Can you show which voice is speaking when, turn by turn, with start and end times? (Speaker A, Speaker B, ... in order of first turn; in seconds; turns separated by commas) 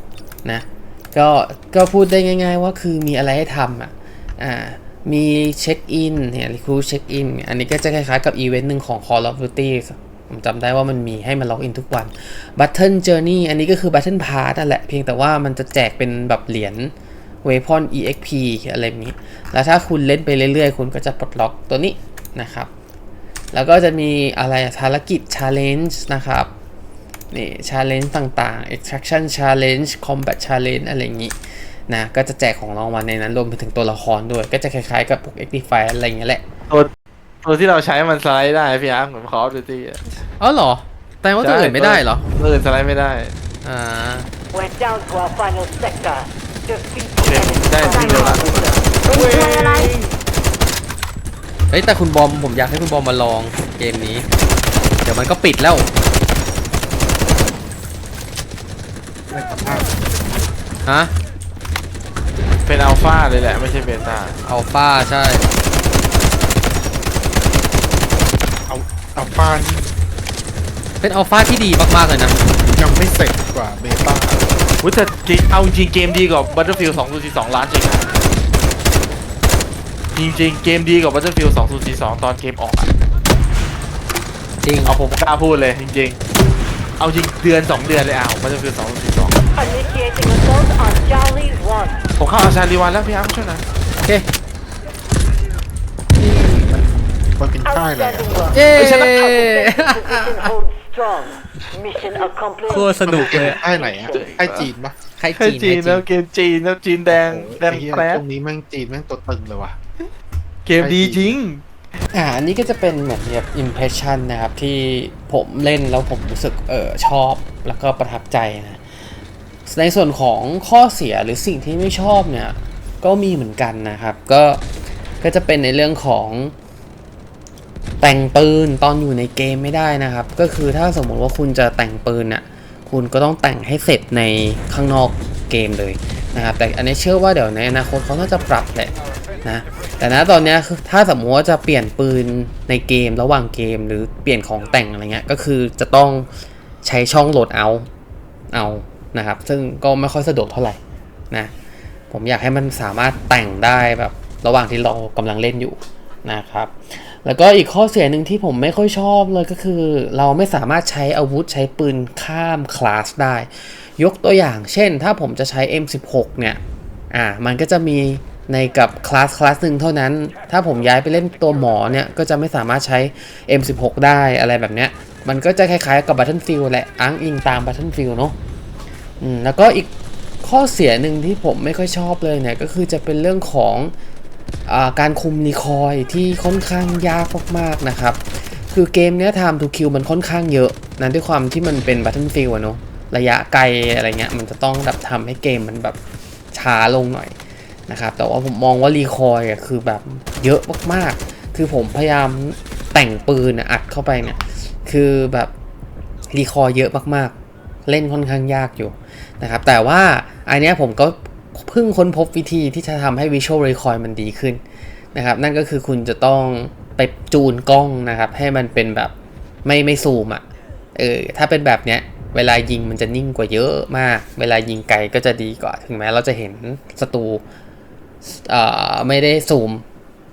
Speaker A: 0.5-16.9, Speaker A: 17.4-22.7, Speaker A: 23.5-26.5, Speaker A: 27.3-31.4, Speaker A: 31.9-36.4, Speaker B: 37.4-40.2, Speaker A: 40.4-42.3, Speaker B: 41.4-43.3, Speaker A: 43.6-44.3, Speaker C: 44.5-49.9, Speaker B: 47.2-50.1, Speaker A: 51.7-54.3, Speaker A: 55.0-55.9, Speaker D: 59.3-59.9, Speaker A: 60.9-61.1, Speaker B: 62.7-64.4, Speaker A: 64.5-65.5, Speaker D: 68.7-69.9, Speaker A: 71.0-72.4, Speaker D: 72.5-74.5, Speaker B: 74.8-78.1, Speaker B: 80.2-82.9, Speaker A: 84.6-85.0, Speaker B: 84.8-86.2, Speaker B: 87.0-89.4, Speaker C: 89.6-92.1, Speaker B: 92.2-93.7, Speaker D: 96.2-98.6, Speaker C: 97.7-98.6, Speaker A: 98.5-100.5, Speaker B: 98.8-99.1, Speaker C: 99.3-104.2, Speaker A: 102.7-103.6, Speaker D: 103.0-105.0, Speaker B: 104.1-104.7, Speaker A: 105.2-106.0, Speaker B: 105.4-108.2, Speaker D: 107.1-109.8, Speaker B: 110.7-111.6, Speaker D: 110.8-111.4, Speaker A: 112.1-118.8, Speaker A: 119.7-124.6, Speaker A: 125.2-126.5, Speaker A: 128.0-138.9, Speaker A: 139.4-146.3, Speaker A: 146.8-147.9, Speaker A: 148.5-150.8, Speaker A: 152.1-166.6, Speaker A: 167.1-178.3, Speaker A: 179.2-179.9, Speaker A: 180.4-183.9, Speaker A: 184.7-196.0, Speaker A: 196.5-197.3, Speaker A: 197.9-205.5, Speaker A: 206.3-207.3, Speaker A: 207.9-214.6, Speaker A: 215.1-219.1, Speaker A: 219.7-220.4, Speaker A: 220.9-227.4, Speaker A: 228.2-229.8